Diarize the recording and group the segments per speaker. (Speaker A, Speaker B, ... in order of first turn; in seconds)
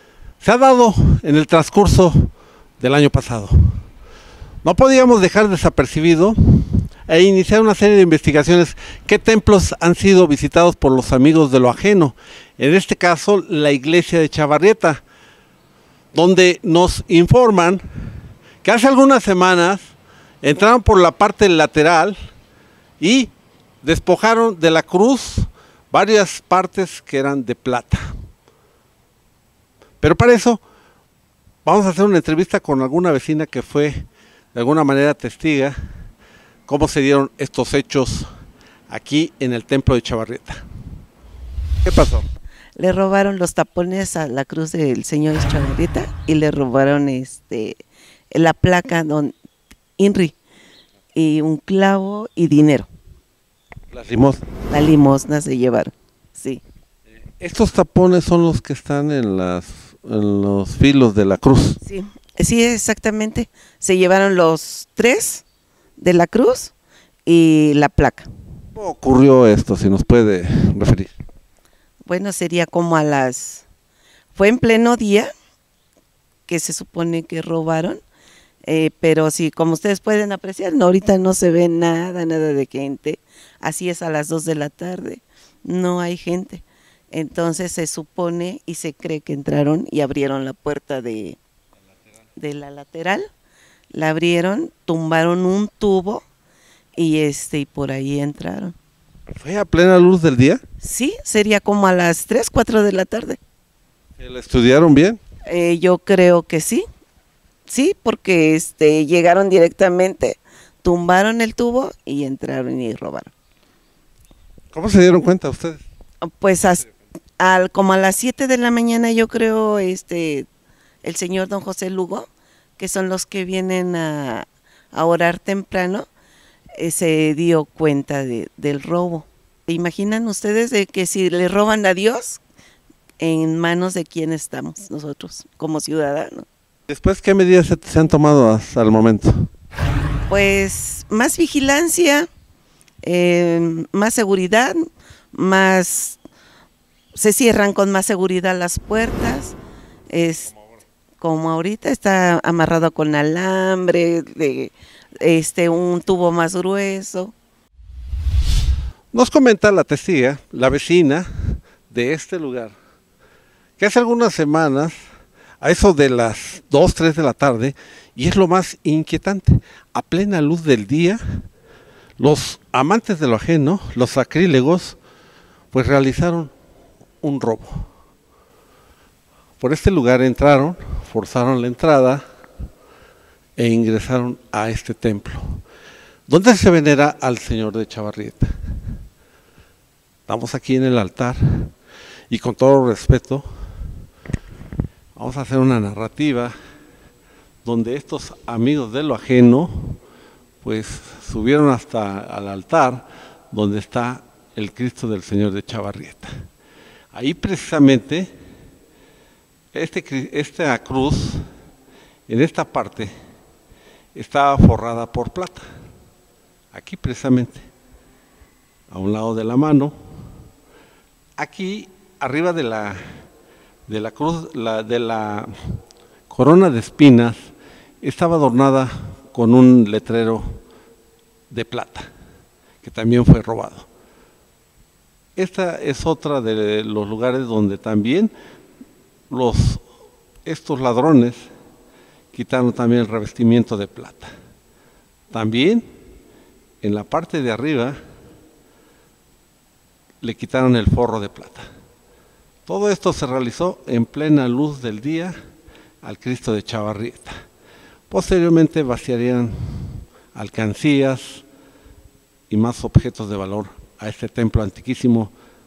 Speaker A: 0.4-3.8, 4.6-15.0, 16.1-17.8, 18.6-22.2, 23.0-23.3, 23.8-28.0, 30.0-30.6, 31.6-35.8, 36.7-38.3, 38.9-40.6, 41.9-42.3, 53.9-54.5, 57.4-61.8, 68.8-71.1, 99.3-100.6, 104.2-105.2, 114.7-115.8, 136.9-139.5, 159.1-162.8, 163.8-165.0, 165.6-171.4, 172.2-175.0, 175.7-176.5, 177.2-177.9, 179.6-182.2, 183.6-185.6, 186.3-188.5, 190.3-191.7, 192.3-193.5, 195.2-196.5, 197.6-200.0, 200.6-206.3, 207.1-208.3, 209.7-211.4, 212.3-213.1, 214.2-215.7, 216.7-217.6, 218.9-219.9, 221.4-223.0, 223.9-225.5, 226.3-227.4, 228.0-230.6, 231.5-232.1, 232.8-233.9, 235.4-238.3, 239.3-239.8, 240.4-241.5, 242.3-244.3, 245.3-245.8, 246.8-248.0, 250.2-251.7, 252.7-255.4, 256.0-257.4, 258.1-261.4, 262.5-265.3
Speaker B: 42.8-47.8, 48.3-49.4, 50.0-50.4, 51.1-52.9, 54.7-56.6, 61.8-65.4, 66.0-66.7, 67.3-68.3, 72.0-73.7, 74.3-75.3, 76.5-78.0, 78.6-91.4, 92.4-93.3, 93.9-96.2, 97.0-98.8, 100.8-103.4, 105.5-106.9, 107.7-113.3, 116.2-116.9, 117.4-120.5, 121.0-126.1, 126.8-132.4, 133.2-136.5, 140.3-142.3, 143.0-144.8, 145.3-146.2, 147.2-149.6, 150.1-150.5, 151.2-157.3